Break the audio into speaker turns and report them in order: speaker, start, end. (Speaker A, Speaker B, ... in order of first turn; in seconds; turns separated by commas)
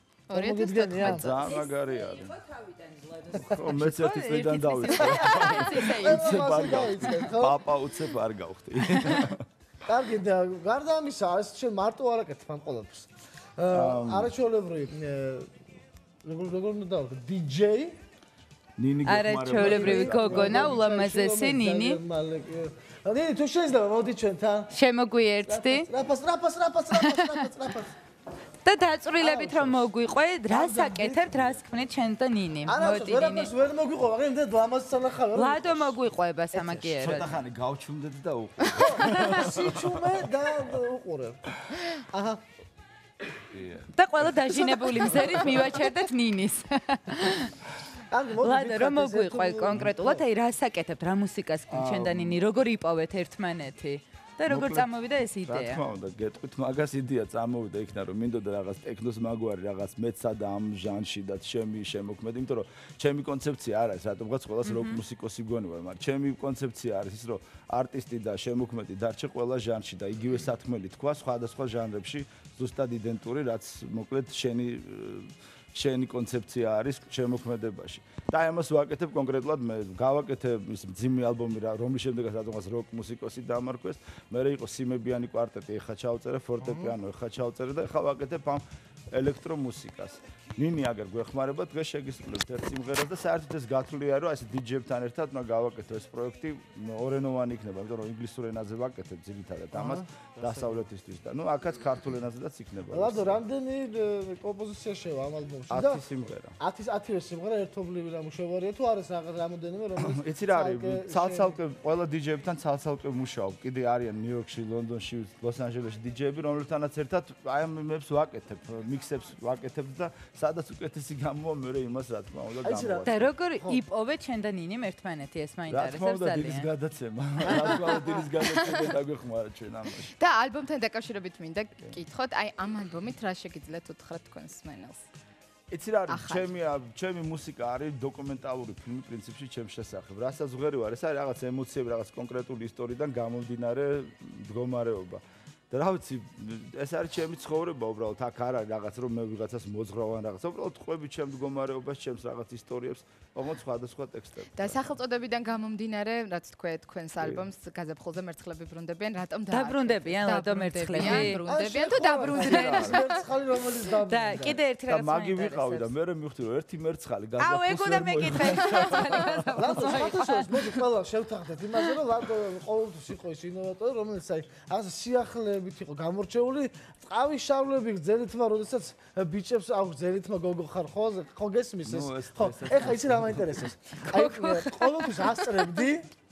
Speaker A: 0.3-1.5, Speaker B: 0.3-1.3, Speaker C: 1.0-2.4, Speaker D: 1.4-7.3, Speaker C: 3.3-9.4, Speaker A: 5.3-5.8, Speaker B: 5.4-7.6, Speaker D: 8.9-9.3, Speaker B: 9.8-15.5, Speaker C: 13.7-14.3, Speaker B: 16.2-17.9, Speaker C: 18.8-20.7, Speaker D: 19.1-22.0, Speaker B: 19.6-24.7, Speaker D: 24.7-25.9, Speaker B: 25.4-27.9, Speaker D: 26.9-27.5, Speaker D: 28.6-33.5, Speaker B: 29.2-29.9, Speaker B: 30.5-31.5, Speaker B: 32.7-36.0, Speaker D: 35.3-37.4, Speaker B: 36.5-36.9, Speaker C: 36.8-40.2, Speaker B: 38.7-42.4, Speaker C: 43.5-43.9, Speaker D: 43.9-47.6, Speaker B: 44.5-45.9, Speaker B: 48.1-50.2, Speaker D: 48.4-55.8, Speaker C: 51.7-52.5, Speaker C: 54.5-54.9, Speaker C: 55.5-103.4, Speaker D: 64.6-65.0, Speaker B: 86.6-86.9, Speaker B: 99.7-100.8, Speaker B: 102.9-111.6, Speaker C: 105.7-106.6, Speaker C: 110.0-123.3, Speaker B: 122.6-123.8, Speaker D: 123.0-126.7, Speaker C: 125.7-130.1, Speaker A: 128.4-128.9, Speaker A: 130.1-135.0, Speaker C: 135.7-155.0, Speaker A: 136.1-136.5, Speaker A: 154.5-163.3, Speaker C: 157.2-157.5, Speaker D: 159.5-161.4, Speaker B: 161.3-164.6, Speaker D: 162.3-163.2, Speaker C: 162.3-163.0, Speaker D: 163.9-165.9, Speaker C: 164.9-169.8, Speaker D: 167.4-170.8, Speaker A: 168.4-169.1, Speaker B: 169.5-186.1, Speaker C: 181.8-183.7, Speaker D: 183.9-185.8